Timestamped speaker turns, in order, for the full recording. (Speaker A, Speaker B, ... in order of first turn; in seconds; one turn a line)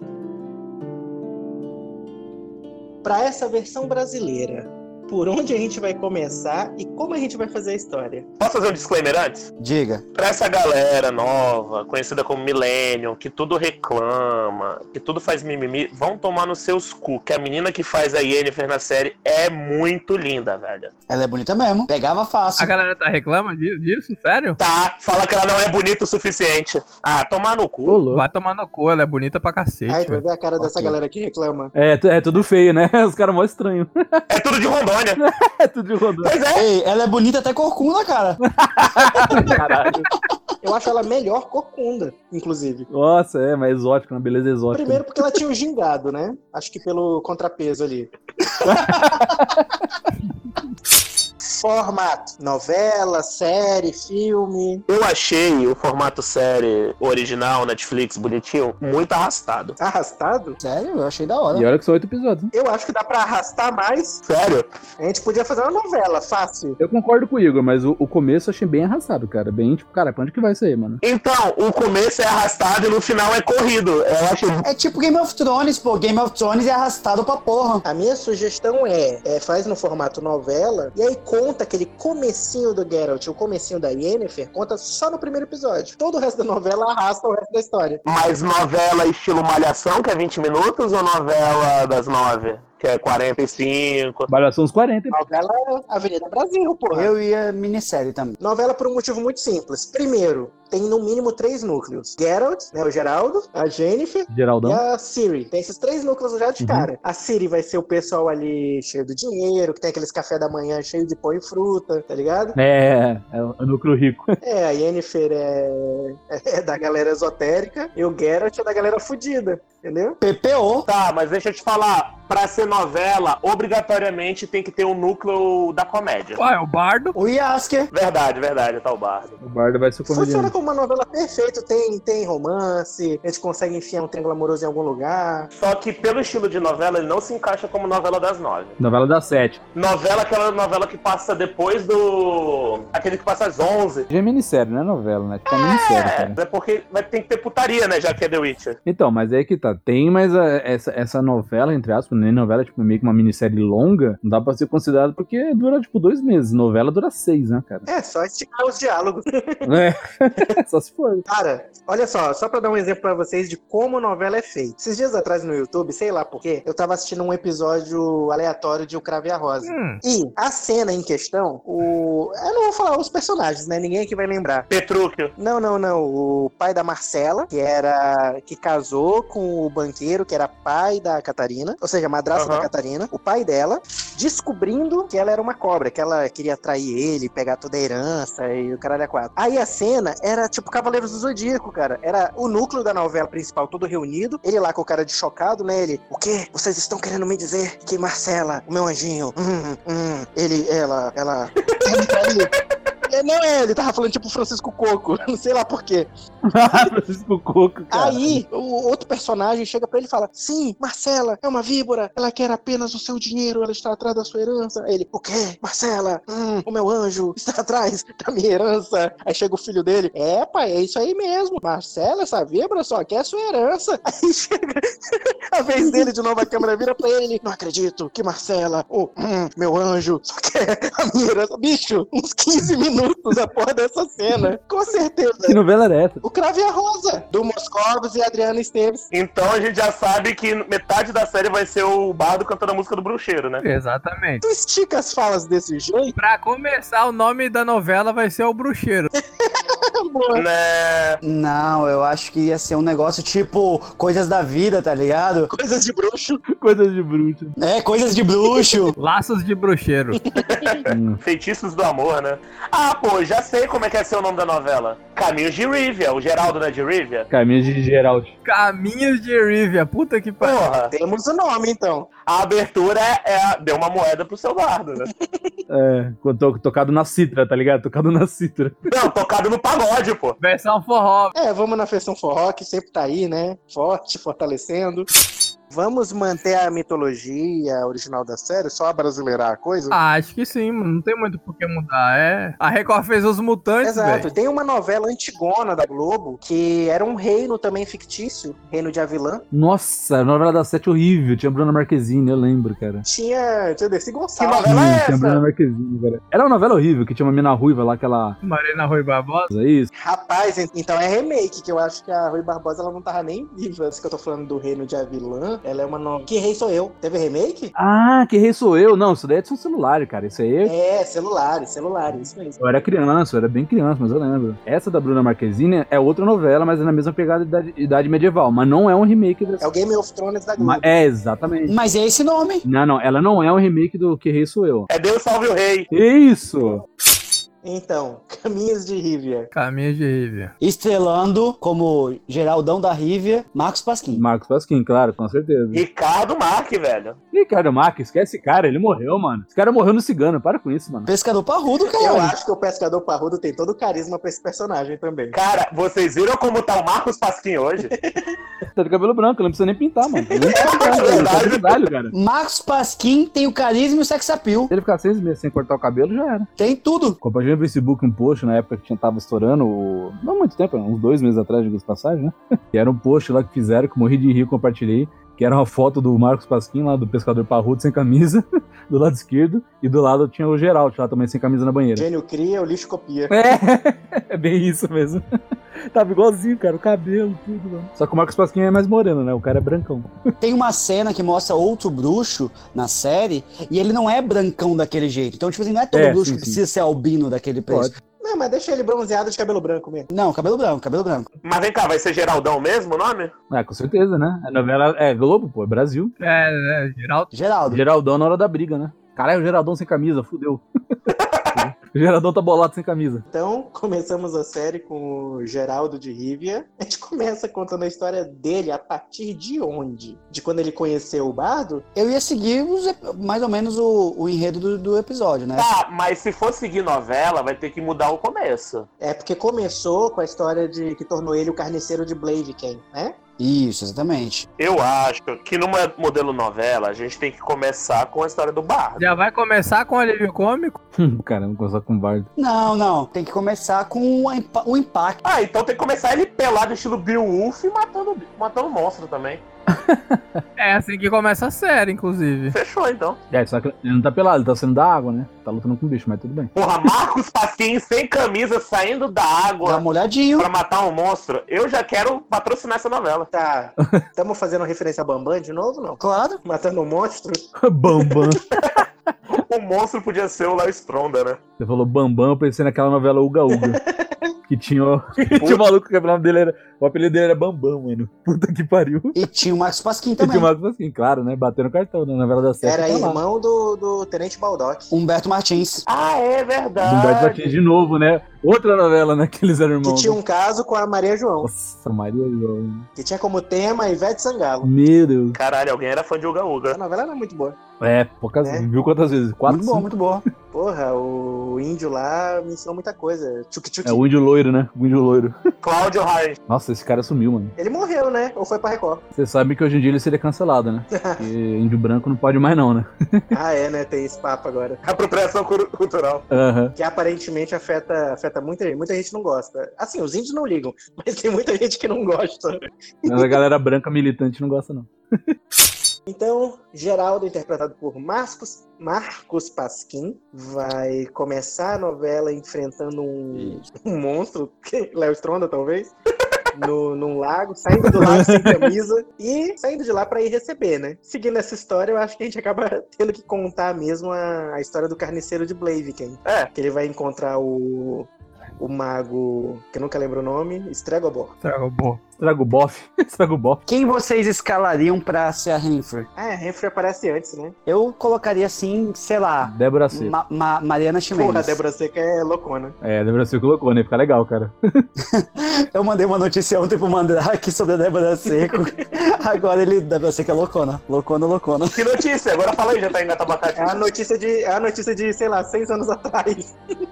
Speaker A: 3.0-8.3
Speaker B: 8.4-9.5
Speaker C: 9.6-10.0
Speaker B: 10.2-20.9
Speaker C: 21.1-22.7
Speaker D: 22.6-24.6
Speaker B: 24.6-28.1
Speaker E: 27.9-28.2
Speaker D: 28.1-30.2
Speaker A: 29.9-31.7
Speaker E: 30.6-31.0
Speaker E: 31.8-34.2
Speaker B: 34.3-35.2
Speaker E: 35.2-36.4
Speaker B: 36.2-36.7
Speaker C: 36.5-38.4
Speaker E: 38.5-40.1
Speaker A: 40.6-42.9
Speaker E: 42.9-45.4
Speaker A: 44.7-48.1
Speaker E: 48.6-49.9
Speaker A: 51.5-54.9
Speaker B: 54.9-59.8
Speaker A: 59.8-60.6
Speaker C: 60.6-61.7
Speaker E: 61.5-62.5
Speaker A: 62.5-64.2
Speaker B: 64.2-64.8
Speaker A: 65.0-66.8
Speaker E: 66.8-71.0
Speaker B: 71.0-74.6
Speaker C: 74.6-77.8
Speaker A: 77.8-88.0
Speaker B: 88.0-94.3
Speaker E: 94.3-95.2
Speaker A: 95.1-97.1
Speaker C: 96.9-98.4
Speaker A: 98.4-112.6
Speaker E: 104.3-104.8
Speaker E: 106.6-106.9
Speaker E: 112.6-114.3
Speaker A: 114.4-120.2
Speaker C: 120.2-120.9
Speaker B: 120.9-126.4
Speaker D: 126.4-127.2
Speaker C: 127.2-127.9
Speaker B: 127.9-129.4
Speaker E: 129.4-130.5
Speaker A: 130.1-135.5
Speaker B: 135.5-138.8
Speaker E: 138.8-139.6
Speaker B: 139.8-144.1
Speaker E: 144.1-146.4
Speaker B: 145.5-148.8
Speaker E: 148.9-157.9
Speaker A: 157.9-159.7
Speaker E: 159.7-161.2
Speaker A: 161.3-174.7
Speaker D: 169.6-170.0
Speaker B: 174.7-175.3
Speaker A: 175.4-202.5
Speaker B: 182.3-182.7
Speaker A: 203.1-206.1
Speaker E: 206.5-208.4
Speaker A: 207.9-235.6
Speaker E: 235.5-236.2
Speaker A: 236.2-239.1
Speaker B: 239.1-243.6
Speaker D: 243.6-244.4
Speaker A: 244.4-246.2
Speaker D: 246.2-249.1
Speaker A: 249.4-250.4
Speaker B: 250.3-251.2
Speaker C: 251.2-255.5
Speaker A: 255.5-256.4
Speaker E: 256.5-257.6
Speaker C: 257.6-259.0
Speaker D: 259.0-260.2
Speaker B: 260.3-267.3
Speaker A: 260.4-260.8
Speaker E: 260.9-261.2
Speaker E: 267.3-268.4
Speaker D: 268.4-270.6
Speaker B: 270.4-270.9
Speaker A: 270.7-272.1
Speaker B: 272.3-275.1
Speaker E: 275.7-278.9
Speaker B: 278.9-280.4
Speaker D: 280.4-281.4
Speaker A: 281.4-285.1
Speaker A: 285.7-290.0
Speaker D: 289.9-294.3
Speaker A: 293.8-299.4
Speaker E: 299.5-303.0
Speaker A: 303.1-304.7
Speaker B: 304.4-305.4
Speaker E: 304.6-308.4
Speaker D: 308.4-309.5
Speaker E: 309.5-309.9
Speaker A: 310.0-317.7
Speaker E: 317.8-320.7
Speaker A: 320.6-322.6
Speaker E: 322.6-329.6
Speaker A: 329.6-330.9
Speaker E: 330.6-331.8
Speaker C: 331.7-332.6
Speaker E: 332.6-334.9
Speaker B: 334.9-335.9
Speaker E: 335.9-336.8
Speaker A: 337.6-339.5
Speaker D: 339.5-340.5
Speaker C: 340.6-344.2
Speaker E: 344.1-345.8
Speaker B: 345.7-347.2
Speaker E: 347.3-351.1
Speaker C: 351.1-352.4
Speaker A: 352.0-355.4
Speaker B: 355.3-357.9
Speaker A: 357.9-358.4
Speaker E: 358.7-362.1
Speaker A: 360.1-360.9
Speaker C: 360.6-361.3
Speaker B: 360.6-361.8
Speaker C: 362.1-364.7
Speaker E: 364.7-366.5
Speaker C: 366.6-367.2
Speaker E: 367.2-382.1
Speaker A: 381.9-383.4
Speaker E: 383.3-385.2
Speaker E: 385.9-390.1
Speaker C: 390.4-397.9
Speaker E: 395.9-396.6
Speaker A: 398.2-400.1
Speaker C: 400.1-401.3
Speaker B: 401.4-403.3
Speaker E: 403.5-406.1
Speaker D: 406.2-407.3
Speaker C: 407.3-407.8
Speaker E: 407.7-410.6
Speaker B: 411.1-411.7
Speaker E: 411.6-413.2
Speaker A: 413.3-421.9
Speaker C: 421.9-425.7
Speaker B: 425.6-428.9
Speaker A: 429.0-433.2
Speaker C: 433.4-434.5
Speaker B: 434.6-439.1
Speaker D: 439.0-440.8
Speaker E: 440.9-442.3
Speaker C: 442.4-445.2
Speaker B: 445.2-449.4
Speaker E: 449.7-450.4
Speaker D: 450.6-452.6
Speaker B: 452.5-453.2
Speaker E: 453.3-456.5
Speaker B: 456.6-459.9
Speaker C: 459.6-460.5
Speaker B: 460.4-463.3
Speaker A: 463.3-468.3
Speaker C: 466.0-466.4
Speaker E: 467.6-468.4
Speaker B: 468.6-471.4
Speaker E: 471.6-473.8
Speaker A: 473.5-474.3
Speaker E: 474.5-479.2
Speaker B: 475.4-475.7
Speaker C: 479.1-480.5
Speaker E: 480.2-483.2
Speaker A: 482.6-484.9
Speaker C: 484.9-485.8
Speaker B: 485.9-487.5
Speaker E: 486.8-490.2
Speaker A: 489.8-491.5
Speaker E: 491.4-492.9
Speaker A: 493.0-494.7
Speaker E: 494.6-495.4
Speaker B: 495.3-496.8
Speaker A: 496.7-497.6
Speaker E: 497.8-499.9
Speaker A: 498.4-498.7
Speaker C: 499.5-500.2
Speaker A: 500.5-504.0
Speaker E: 503.9-505.4
Speaker B: 505.6-506.4
Speaker E: 506.5-507.5
Speaker A: 507.6-509.0
Speaker E: 509.1-513.3
Speaker A: 511.0-511.3
Speaker A: 513.3-514.8
Speaker B: 514.8-516.3
Speaker E: 516.3-516.7
Speaker A: 516.8-523.4
Speaker E: 523.1-525.4
Speaker A: 526.1-535.9
Speaker C: 533.3-533.6
Speaker A: 536.5-551.3
Speaker E: 537.9-538.6
Speaker B: 546.2-546.5
Speaker D: 551.4-552.0
Speaker E: 552.2-553.6
Speaker C: 553.7-556.1
Speaker A: 556.2-557.5
Speaker C: 557.7-561.6
Speaker E: 559.5-560.1
Speaker A: 561.1-562.8
Speaker E: 562.8-564.9
Speaker C: 565.0-571.9
Speaker A: 568.3-568.7
Speaker B: 571.7-573.8
Speaker A: 573.6-576.5